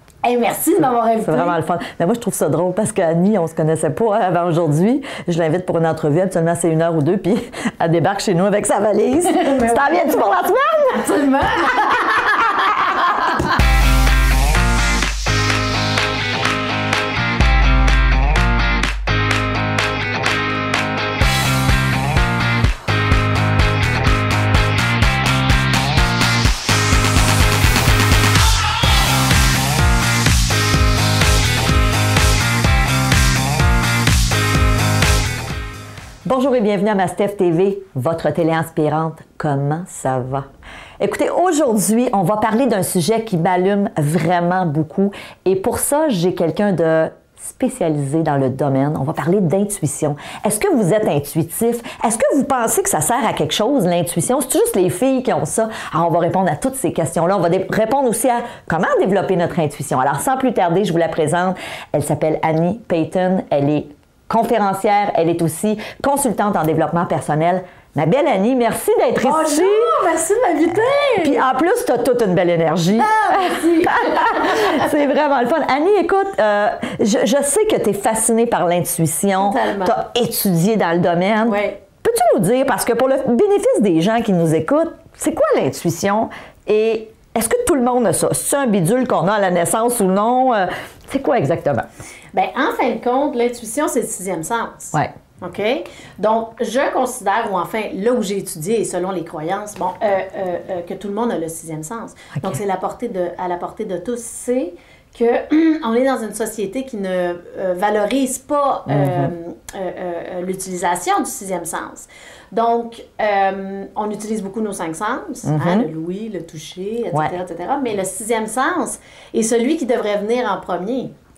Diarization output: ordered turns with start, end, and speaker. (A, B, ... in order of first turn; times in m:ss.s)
0:00.2-0:01.6 A
0:01.2-0:11.0 B
0:09.2-0:10.2 A
0:10.9-0:13.3 A
0:36.2-0:40.4 B
0:41.0-1:09.9 B
1:09.2-1:11.5 A
1:11.2-1:31.9 B
1:12.9-1:14.8 A
1:19.4-1:20.0 A
1:21.5-1:21.8 A
1:32.3-2:01.1 A
1:48.9-1:49.3 B
1:55.4-1:55.9 B